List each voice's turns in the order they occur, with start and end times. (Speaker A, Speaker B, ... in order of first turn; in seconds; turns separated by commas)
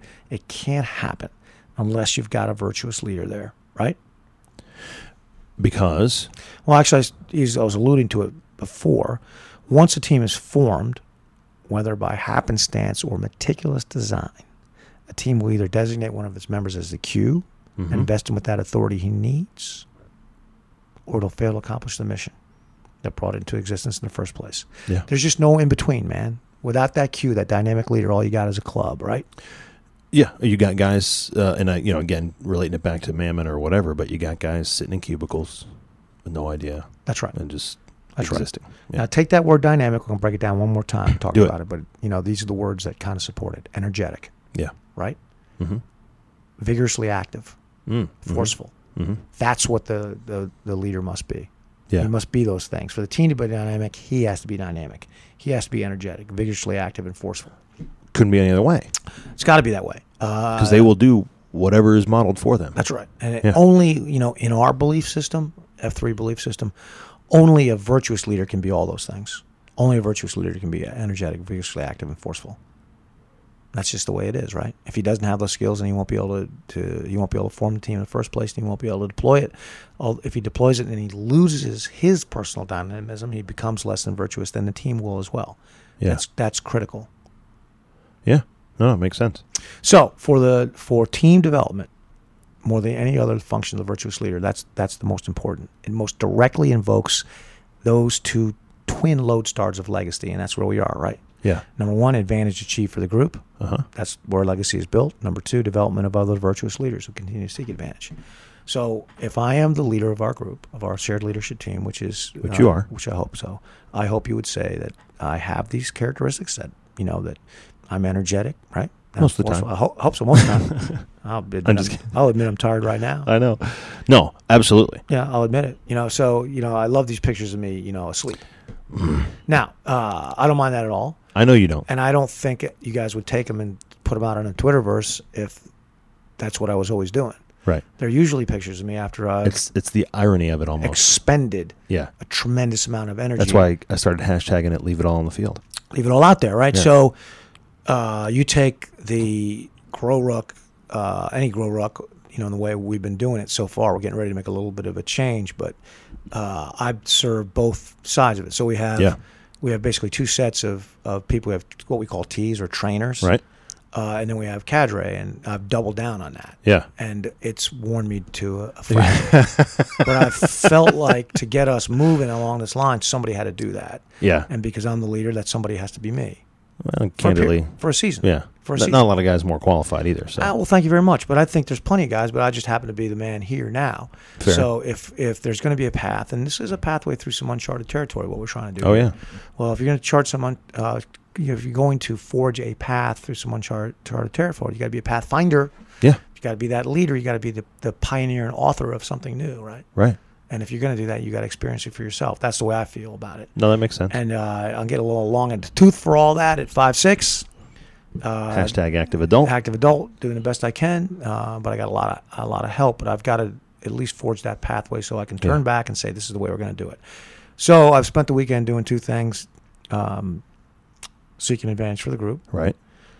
Speaker A: 0.3-4.0, Speaker B: 5.6-6.3, Speaker A: 6.7-11.0, Speaker A: 11.7-14.4, Speaker A: 15.1-19.9, Speaker B: 17.8-18.1, Speaker A: 21.1-22.3, Speaker A: 23.0-29.3, Speaker B: 30.1-35.6, Speaker B: 36.2-39.0, Speaker A: 37.0-37.4, Speaker A: 38.2-44.3, Speaker A: 46.6-47.6, Speaker B: 47.9-49.2, Speaker A: 48.2-48.7, Speaker A: 49.3-57.5, Speaker B: 58.1-58.9, Speaker A: 59.4-60.9, Speaker B: 60.6-62.8, Speaker A: 62.8-66.7, Speaker A: 67.3-72.6, Speaker A: 73.7-87.1, Speaker B: 88.2-89.4, Speaker A: 89.8-91.9, Speaker A: 92.6-97.2, Speaker A: 97.8-108.1, Speaker B: 103.6-103.8, Speaker A: 108.7-117.4, Speaker B: 112.4-112.9, Speaker A: 117.9-123.3, Speaker B: 119.2-119.7, Speaker B: 120.3-121.0, Speaker B: 121.6-122.1, Speaker B: 123.2-125.0, Speaker A: 125.1-128.4, Speaker B: 128.9-129.3, Speaker A: 129.5-131.2, Speaker B: 131.3-131.8, Speaker A: 131.8-135.7, Speaker A: 136.4-137.4, Speaker A: 138.0-139.6, Speaker B: 139.4-141.0, Speaker A: 140.8-143.7, Speaker B: 143.4-145.6, Speaker A: 145.9-147.1, Speaker A: 147.8-155.8, Speaker A: 156.3-163.3, Speaker A: 163.9-176.4, Speaker B: 168.9-170.5, Speaker B: 174.2-174.5, Speaker B: 176.8-180.5, Speaker A: 177.2-179.0, Speaker A: 180.4-195.7, Speaker B: 184.4-184.7, Speaker B: 188.8-189.1, Speaker A: 196.3-199.8, Speaker A: 200.5-203.5, Speaker B: 203.6-204.1, Speaker A: 204.1-207.4, Speaker A: 208.2-208.8, Speaker B: 208.5-209.5, Speaker A: 209.4-217.0, Speaker A: 217.6-220.4, Speaker A: 221.4-222.4